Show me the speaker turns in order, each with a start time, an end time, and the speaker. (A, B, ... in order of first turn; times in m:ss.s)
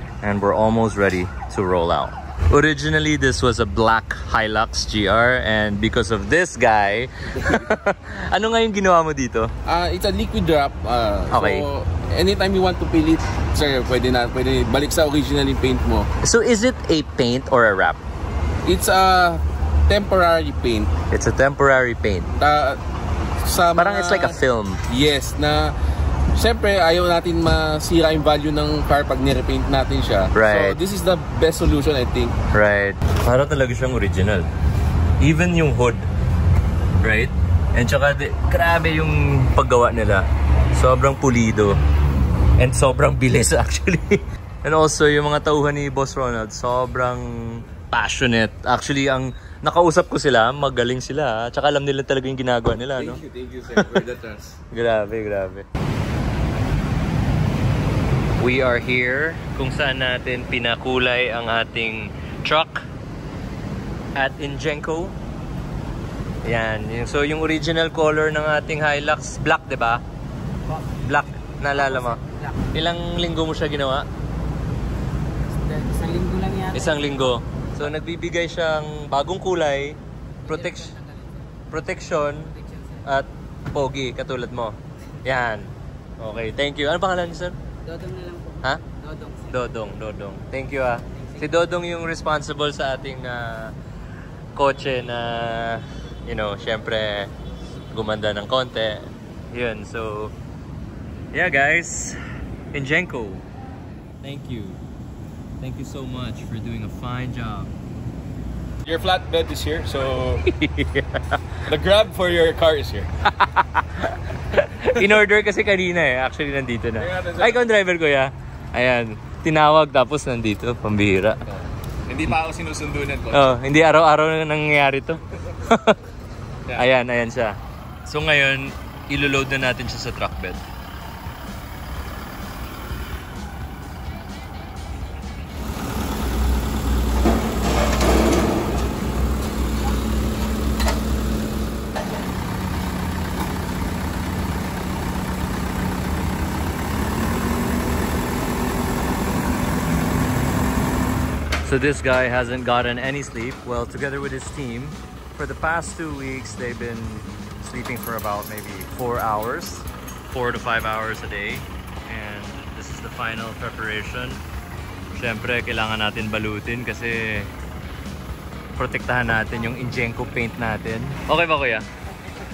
0:00.2-0:09.5 A
0:09.7-0:16.1 B
0:11.3-0:11.7 A
0:16.2-0:18.0 A
0:18.6-0:20.9 B
0:21.1-0:22.3 A
0:22.4-0:22.8 B
0:23.4-0:25.7 B
0:23.8-0:24.8 A
0:26.4-0:32.4 B
0:30.3-0:30.8 A
0:32.5-0:34.5 A
0:35.2-0:36.1 A
0:37.0-0:41.8 A
0:42.6-0:53.2 A
0:53.0-0:54.5 C
0:53.5-0:53.9 B
0:54.7-0:55.7 A
0:58.4-1:02.8 A
1:04.2-1:05.2 A
1:06.4-1:10.0 A
1:10.7-1:11.0 D
1:11.0-1:12.2 A
1:11.7-1:12.6 D
1:12.7-1:14.1 A
1:15.5-1:17.3 D
1:16.7-1:20.9 A
1:20.4-1:21.4 D
1:21.7-1:22.5 A
1:22.6-1:23.0 D
1:23.0-1:27.6 A
1:27.8-1:29.7 D
1:29.5-1:33.7 A
1:31.2-1:31.4 D
1:34.6-1:37.3 A
1:37.9-1:40.3 A
1:41.3-1:42.2 A
1:42.7-1:43.4 A
1:44.2-1:44.8 A
1:45.6-1:47.7 A
1:48.8-1:50.4 C
1:50.5-1:51.4 A
1:51.7-1:53.1 C
1:53.3-2:01.4 A
1:57.0-1:57.7 C
2:01.5-2:03.6 C
2:03.3-2:06.0 A
2:06.8-2:10.6 A
2:31.6-2:44.4 A
2:45.1-2:47.5 A
2:48.8-2:51.9 A